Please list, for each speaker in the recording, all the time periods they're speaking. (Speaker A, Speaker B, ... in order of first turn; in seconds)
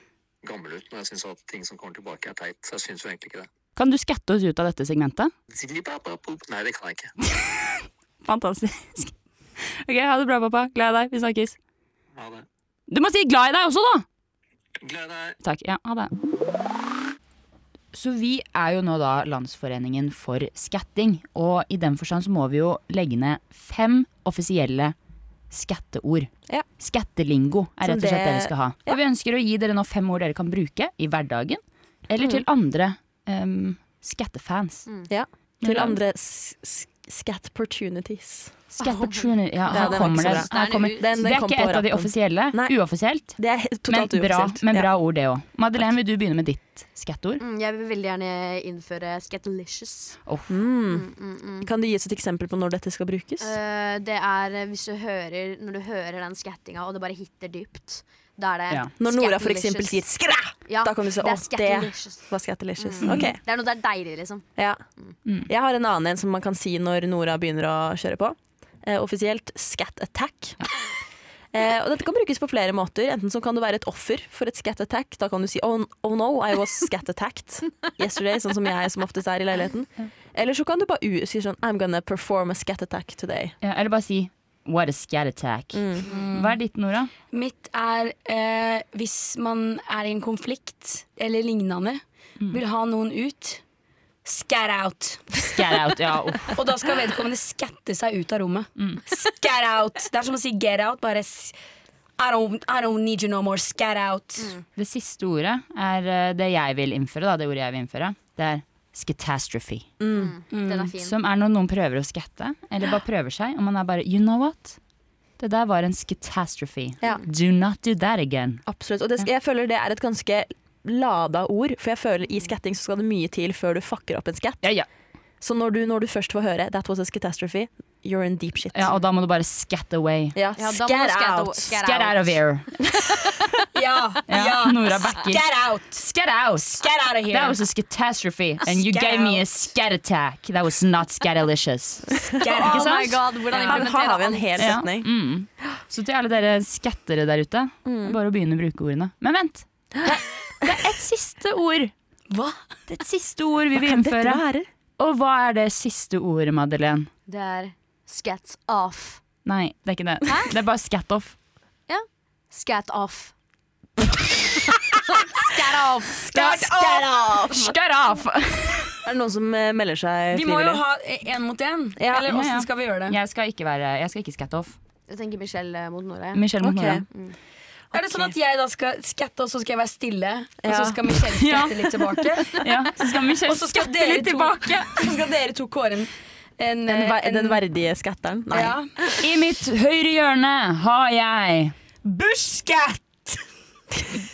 Speaker A: 0.4-3.5, 5.5-7.1, 12.2-12.5, 14.8-15.4
Speaker B: 3.8-5.3, 7.4-9.1, 9.7-11.6, 12.9-14.1, 15.4-16.1, 17.9-25.0, 25.5-34.9, 35.6-36.0, 38.8-47.4, 83.6-87.1, 95.5-96.5, 98.8-99.0, 104.8-109.9, 111.0-114.8, 115.4-118.7, 128.7-130.4, 131.8-132.8, 134.3-143.8, 144.6-151.9, 152.9-154.4, 155.0-157.1, 159.4-161.4, 166.3-166.7, 167.5-169.0, 172.2-174.8, 176.3-177.1, 181.3-181.9, 182.5-185.0, 189.2-191.8
Speaker C: 27.8-29.0, 35.1-38.6, 39.7-42.8, 43.3-44.9, 50.5-51.1, 51.6-53.6, 59.0-63.4, 65.5-70.6, 71.5-83.5, 85.7-86.1, 110.0-110.4, 118.7-124.7, 125.4-128.9, 130.3-131.8, 143.5-145.1, 147.8-148.2, 153.8-154.7, 166.3-167.4, 169.0-170.8, 172.0-172.3, 176.6-177.1, 177.9-178.3, 180.6-181.1, 186.9-188.8
Speaker D: 38.8-41.1, 47.4-50.2, 50.9-51.7, 53.4-60.1, 60.7-62.3, 62.8-64.5, 110.1-111.2, 130.6-132.4, 142.5-144.8, 157.3-159.2, 160.3-160.5, 161.9-163.3, 165.3-166.2, 175.1-176.4, 177.1-177.4
Speaker E: 86.1-86.6, 87.3-93.6, 94.2-95.5, 96.5-101.6, 102.2-104.6, 110.5-110.9, 133.7-136.0, 136.7-137.6, 138.6-139.5, 142.4-143.2, 152.3-152.6, 166.3-167.6, 170.3-173.2, 177.9-182.7, 183.4-187.6, 188.5-188.9, 192.0-193.4